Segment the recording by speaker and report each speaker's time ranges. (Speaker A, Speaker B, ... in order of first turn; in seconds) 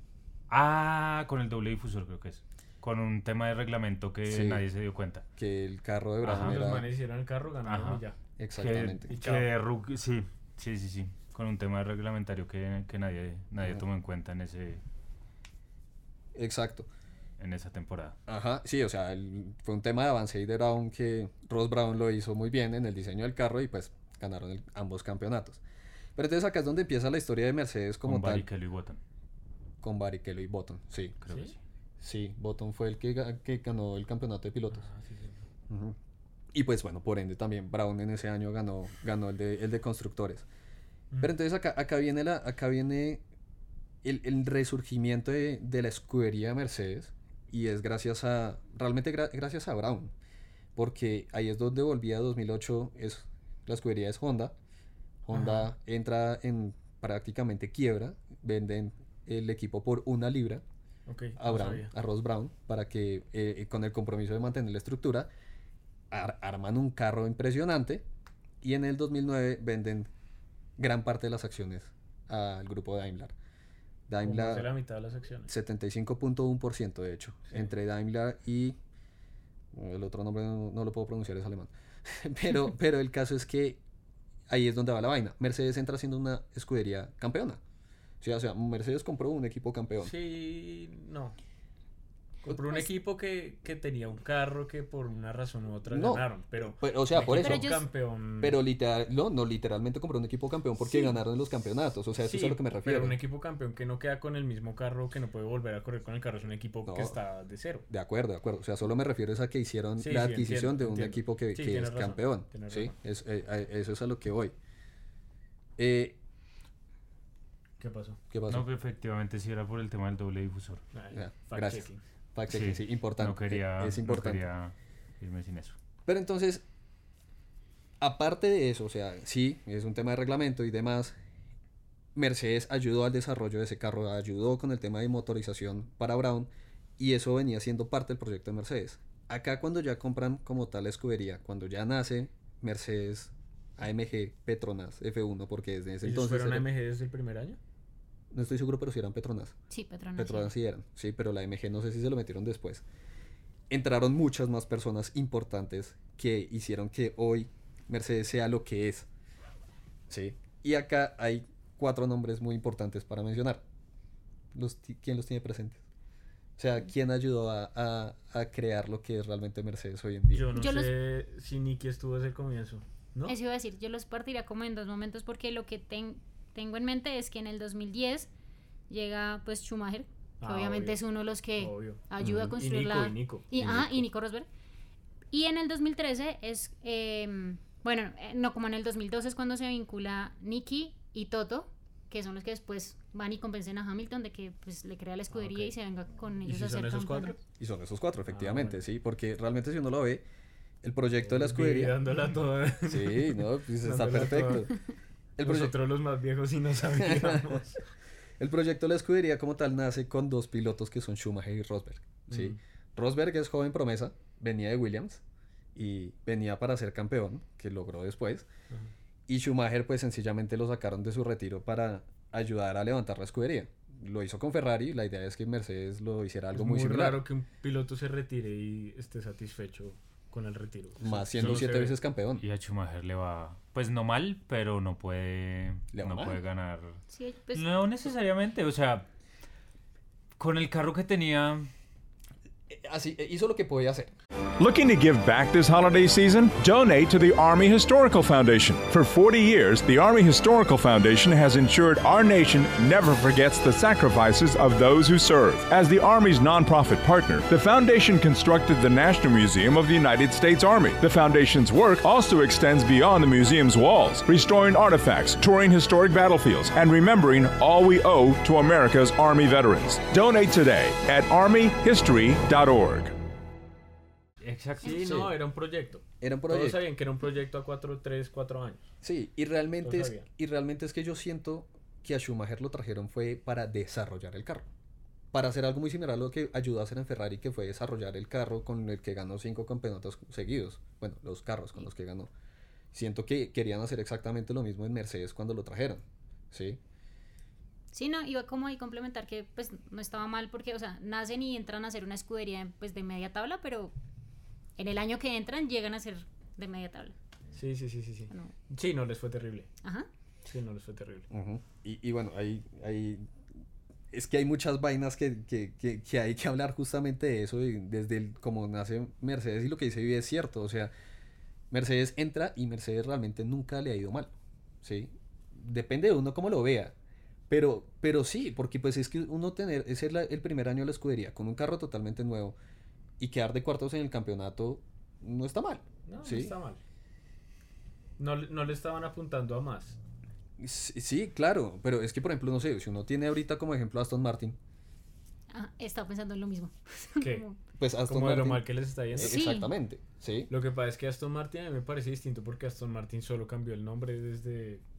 Speaker A: 0.5-5.2, 6.2-6.6, 7.7-8.0, 8.6-14.8, 17.4-18.2, 28.1-29.0, 31.2-31.6, 118.5-120.8, 122.5-125.8, 231.4-231.7, 232.4-237.0, 237.5-239.1, 240.4-241.7, 274.4-275.1
Speaker B: 4.3-4.6, 5.4-6.9, 8.4-9.1, 16.4-16.9, 18.3-25.6, 26.2-28.5, 29.8-31.2, 32.0-34.9, 35.7-36.0, 36.5-40.5, 41.2-43.2, 44.0-50.1, 50.8-54.5, 55.3-60.6, 61.4-65.3, 66.1-68.0, 68.6-70.1, 70.8-73.3, 74.1-74.7, 75.5-78.8, 79.7-83.8, 84.5-87.6, 88.2-90.1, 95.9-97.7, 98.4-103.2, 106.8-107.2, 107.9-114.5, 115.8-116.2, 118.3-118.7, 121.1-124.5, 126.1-126.7, 128.0-131.2, 132.2-146.7, 148.3-149.6, 150.2-152.8, 153.7-159.1, 160.1-163.6, 164.5-165.8, 166.6-170.5, 182.2-182.6, 183.6-184.1, 197.6-200.2, 200.8-202.0, 202.9-204.7, 205.4-205.8, 206.9-207.6, 208.4-215.2, 215.8-218.5, 219.3-227.2, 231.0-232.4, 235.9-236.4, 242.7-244.1, 275.0-275.3, 276.2-276.8, 279.0-284.7, 285.3-292.3, 292.9-296.8, 311.3-313.3, 314.1-320.9, 321.7-326.9, 327.5-332.6, 333.2-336.6, 340.6-344.6, 347.8-350.5
Speaker C: 6.2-8.2, 9.1-9.5, 34.7-35.4, 55.3-55.7, 61.1-61.9, 74.2-75.5, 90.0-91.4, 92.5-98.6, 102.2-107.9, 110.0-112.9, 117.8-118.2, 120.9-122.0, 146.0-147.6, 170.3-173.3, 180.4-181.0, 181.6-183.5, 195.3-195.8, 196.4-197.4, 198.3-198.8, 201.2-204.7, 205.4-207.8, 212.3-212.6, 226.5-232.0, 274.8-278.9, 279.8-280.3, 307.5-309.7, 310.5-311.3, 336.1-336.8, 338.2-340.0, 347.2-347.5, 348.1-349.4, 350.5-354.8
Speaker D: 92.4-92.9, 97.3-97.8, 149.7-150.5, 170.6-170.9, 173.3-178.3, 178.9-184.5, 185.3-197.4, 237.1-237.7, 297.9-303.9, 304.8-307.1, 309.8-310.1, 345.5-347.6, 349.2-349.7
Speaker E: 244.6-273.1